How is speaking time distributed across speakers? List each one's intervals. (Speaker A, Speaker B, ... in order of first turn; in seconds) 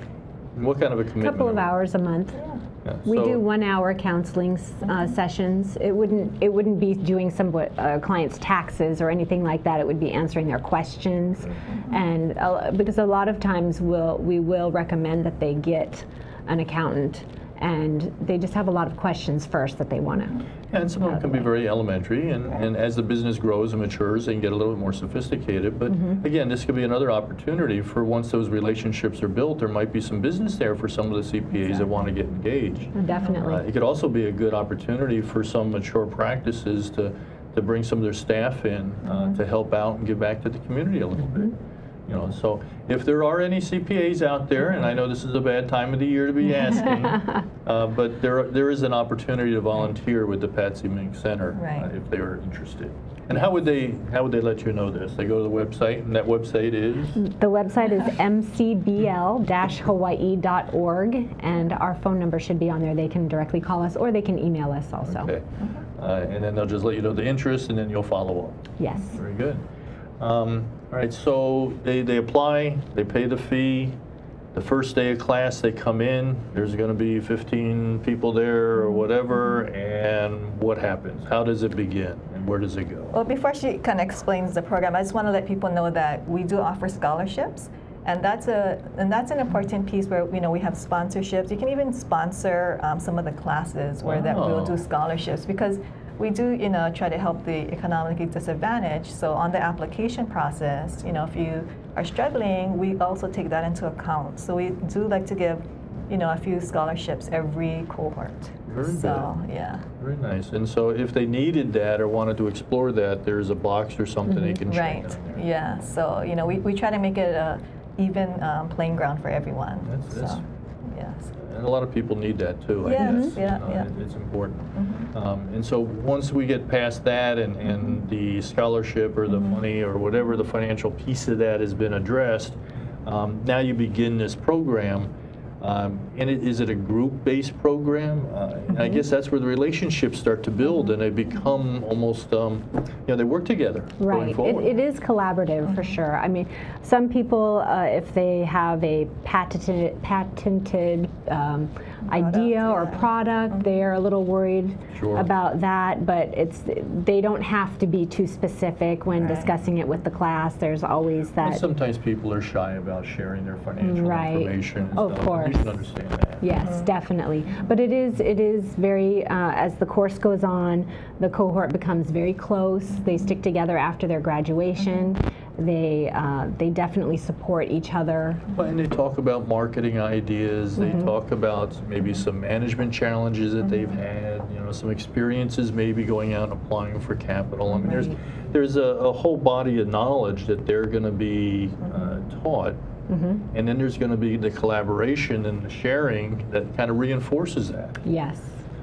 Speaker A: 0.6-1.7, 2.9-3.4, 20.7-57.2, 65.0-69.6, 70.2-74.0, 74.5-83.2, 94.0-94.8, 108.7-109.3, 110.0-115.5, 119.8-120.4, 121.3-144.7, 154.9-155.3, 161.4-166.4, 178.5-192.8, 193.5-198.0
Speaker B: 1.2-2.4, 3.1-20.4, 21.0-21.5, 25.9-26.2, 33.0-33.6, 57.2-65.3, 68.8-69.2, 114.3-114.6, 123.0-123.3, 144.0-161.6, 163.8-165.8, 166.4-178.4, 180.8-181.1, 187.8-188.2, 193.1-193.5, 198.1-198.6
Speaker C: 39.1-39.3, 51.6-51.9, 83.1-109.9, 114.7-121.3, 122.9-123.9, 124.8-125.1, 145.6-146.0, 152.1-153.7, 159.2-159.5, 166.6-166.8